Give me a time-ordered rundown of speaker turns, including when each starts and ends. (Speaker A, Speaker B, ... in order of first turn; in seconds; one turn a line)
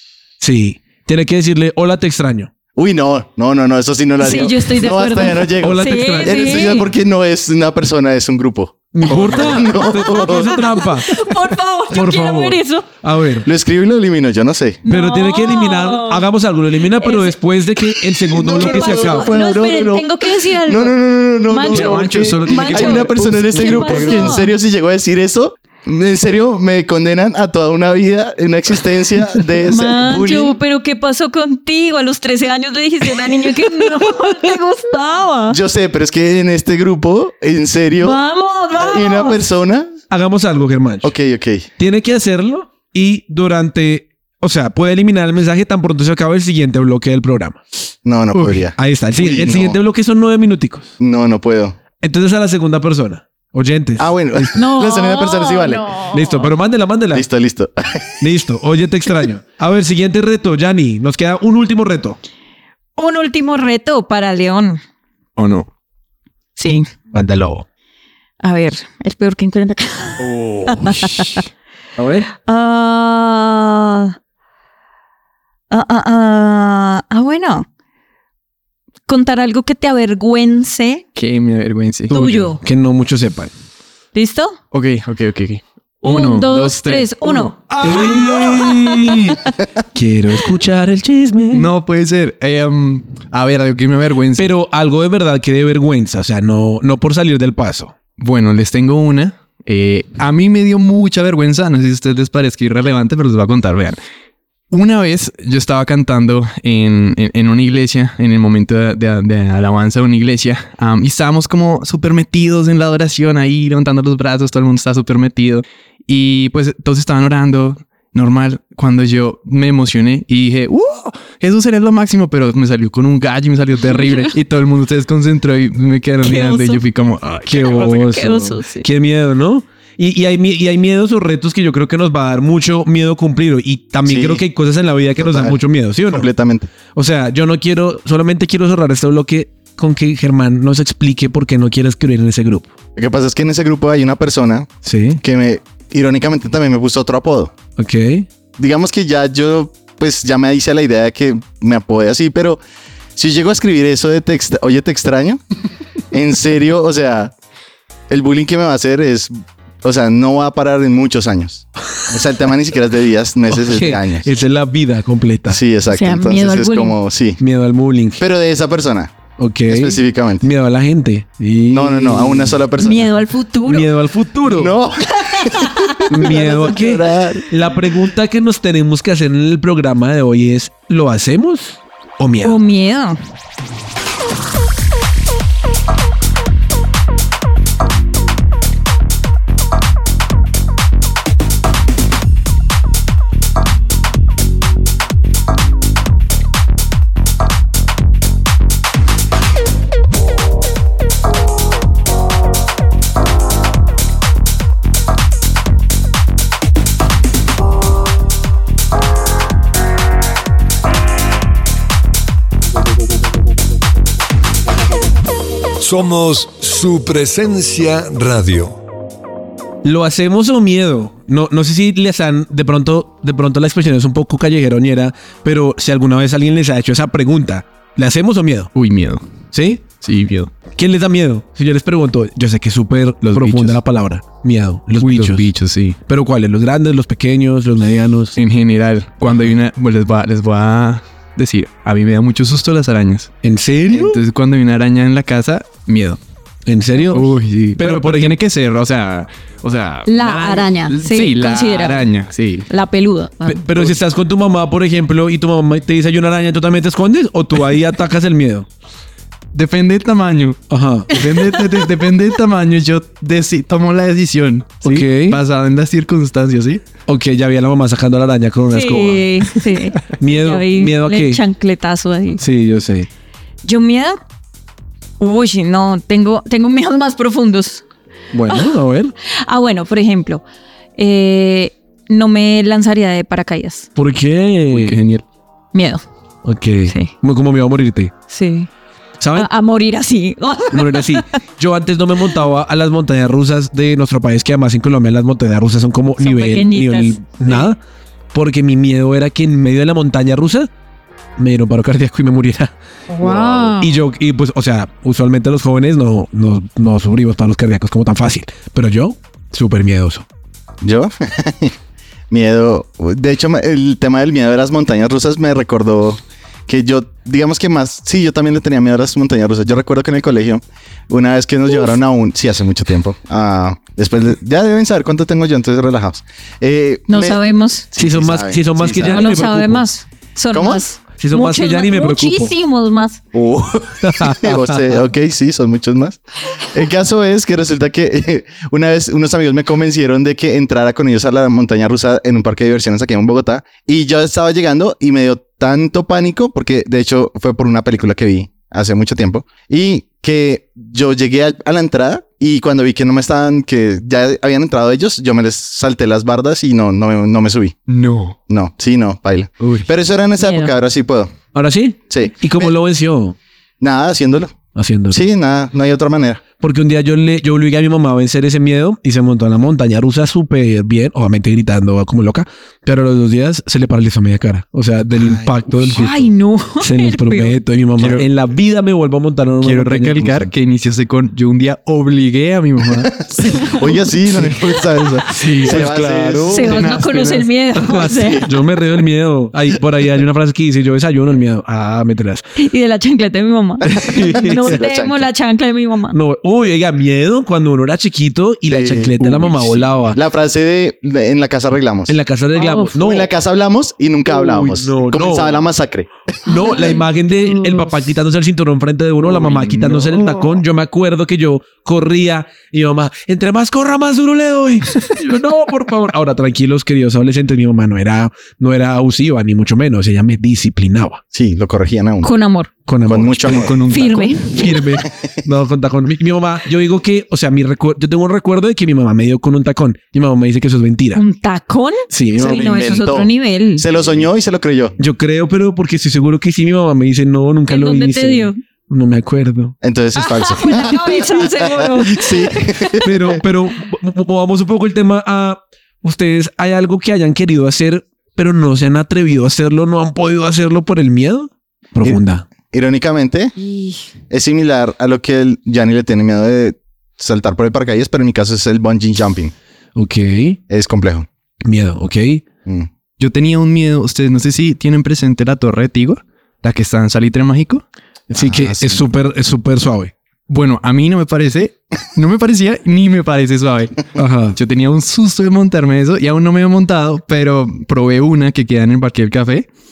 Speaker A: 0.4-2.5
Speaker B: 2.7-10.7
Speaker C: 4.2-6.9
Speaker A: 5.5-6.8
Speaker A: 8.9-11.3
Speaker C: 9.1-12.9
Speaker A: 11.9-13.5
Speaker B: 13.4-14.8
Speaker C: 14.8-16.2
Speaker A: 14.8-19.4
Speaker C: 16.9-17.4
Speaker B: 18.2-30.5
Speaker C: 18.4-24.5
Speaker D: 21.6-24.2
Speaker C: 29.6-35.6
Speaker B: 35.5-38.2
Speaker C: 38.0-39.4
Speaker B: 38.8-40.0
Speaker A: 40.1-41.1
Speaker B: 41.0-41.6
Speaker A: 41.8-47.6
Speaker B: 48.0-49.8
Speaker A: 48.7-50.9
Speaker B: 51.0-51.8
Speaker A: 52.0-54.5
Speaker B: 54.0-56.0
Speaker C: 54.5-56.4
Speaker A: 56.1-57.2
Speaker B: 57.1-58.2
Speaker A: 58.2-62.2
Speaker C: 63.0-64.8
Speaker D: 65.4-65.7
Speaker C: 66.6-66.9
Speaker A: 67.1-67.7
Speaker C: 68.4-71.4
Speaker A: 72.0-72.3
Speaker C: 72.4-74.1
Speaker C: 75.7-77.7
Speaker C: 79.1-81.0
Speaker D: 81.2-82.3
Speaker C: 82.1-82.6
Speaker A: 82.1-83.5
Speaker C: 84.1-84.6
Speaker D: 84.7-88.1
Speaker C: 86.0-89.3
Speaker A: 87.8-89.4
Speaker A: 89.9-91.7
Speaker D: 91.5-94.5
Speaker A: 94.3-97.9
Speaker D: 98.2-104.0
Speaker D: 104.7-127.9
Speaker C: 126.2-126.8
Speaker A: 127.5-136.3
Speaker C: 127.7-128.9
Speaker B: 134.1-134.4
Speaker B: 135.2-135.6
Speaker B: 136.1-136.7
Speaker A: 136.9-142.7
Speaker B: 142.9-147.5
Speaker A: 144.8-145.2
Speaker A: 147.8-148.3
Speaker B: 148.6-152.6
Speaker B: 153.2-155.4
Speaker B: 156.1-157.3
Speaker B: 158.1-164.3
Speaker A: 163.5-165.6
Speaker B: 165.5-167.4
Speaker C: 165.9-167.0
Speaker A: 167.4-168.2
Speaker B: 168.2-169.1
Speaker A: 169.4-172.6
Speaker B: 169.7-170.5
Speaker B: 171.7-173.1
Speaker C: 172.8-173.9
Speaker A: 173.7-174.7
Speaker B: 174.5-177.5
Speaker C: 175.2-176.1
Speaker A: 176.1-182.6
Speaker C: 182.4-183.2
Speaker E: 215.8-218.8
Speaker A: 219.8-228.7
Speaker D: 228.7-229.2
Speaker A: 229.5-229.8
Speaker D: 230.0-230.5
Speaker A: 230.7-235.5
Speaker D: 233.3-233.8
Speaker D: 235.0-236.0
Speaker A: 236.1-238.4
Speaker D: 238.4-243.3
Speaker A: 243.4-244.2
Speaker D: 243.9-246.2
Speaker A: 246.7-248.3
Speaker D: 247.1-252.7
Speaker C: 250.1-252.1
Speaker C: 252.7-253.7
Speaker A: 253.4-258.7
Speaker D: 259.5-266.9
Speaker A: 260.7-261.1
Speaker A: 264.8-265.4
Speaker A: 267.1-269.5
Speaker C: 268.7-272.4
Speaker A: 270.1-271.4
Speaker A: 272.4-273.1
Speaker C: 273.6-274.2
Speaker C: 275.2-277.8
Speaker A: 278.3-279.1
Speaker C: 278.5-280.4
Speaker C: 281.0-283.9
Speaker A: 283.9-285.0
Speaker D: 284.7-285.2
Speaker C: 285.7-286.0
Speaker A: 286.4-288.1
Speaker C: 288.3-288.7
Speaker A: 289.2-289.5
Speaker C: 289.3-291.4
Speaker A: 290.7-297.8
Speaker C: 296.2-297.7
Speaker A: 298.3-300.7
Speaker A: 301.4-302.7
Speaker C: 303.1-304.0
Speaker B: 303.2-303.6
Speaker A: 303.2-310.2
Speaker B: 310.8-311.7
Speaker B: 312.3-327.4
Speaker C: 327.1-327.9
Speaker B: 327.9-329.3
Speaker A: 327.9-329.9
Speaker C: 329.1-333.2
Speaker B: 330.5-330.8
Speaker A: 331.2-332.5
Speaker B: 333.3-357.7
Speaker A: 334.0-334.8
Speaker D: 357.9-358.4
Speaker B: 358.5-361.3
Speaker D: 359.6-359.9
Speaker C: 360.4-360.7
Speaker A: 361.5-363.4
Speaker B: 362.1-362.7
Speaker B: 363.8-364.6
Speaker A: 364.7-365.2
Speaker B: 365.1-366.4
Speaker A: 366.6-376.1
Speaker D: 375.4-376.1
Speaker C: 375.9-377.6
Speaker A: 376.8-380.5
Speaker D: 378.0-378.2
Speaker D: 379.6-383.5
Speaker B: 383.3-386.9
Speaker C: 383.5-383.8
Speaker D: 385.3-386.0
Speaker A: 385.3-386.8
Speaker C: 386.5-388.4
Speaker D: 386.6-387.5
Speaker B: 387.9-388.5
Speaker A: 388.4-392.4
Speaker C: 392.6-396.2
Speaker A: 393.8-394.8
Speaker B: 393.9-395.3
Speaker A: 396.1-400.2
Speaker B: 398.7-402.1
Speaker A: 402.1-403.3
Speaker B: 402.9-406.1
Speaker A: 404.2-405.6
Speaker A: 406.4-421.2
Speaker C: 406.5-407.0
Speaker B: 421.3-422.3
Speaker C: 422.2-422.7
Speaker A: 422.9-431.2
Speaker B: 423.1-423.8
Speaker D: 423.4-425.0
Speaker C: 423.9-424.5
Speaker C: 431.1-433.9
Speaker A: 432.1-433.0
Speaker B: 432.3-434.9
Speaker A: 435.0-439.8
Speaker C: 437.7-438.6
Speaker B: 439.8-443.4
Speaker C: 440.1-443.0
Speaker A: 443.0-452.5
Speaker B: 452.0-453.5
Speaker C: 453.6-454.1
Speaker B: 454.3-459.5
Speaker A: 459.9-460.6
Speaker B: 460.7-461.3
Speaker A: 461.6-462.4
Speaker D: 463.2-467.8
Speaker A: 468.3-470.1
Speaker B: 468.3-469.0
Speaker D: 470.5-473.9
Speaker A: 474.1-474.6
Speaker D: 474.5-479.7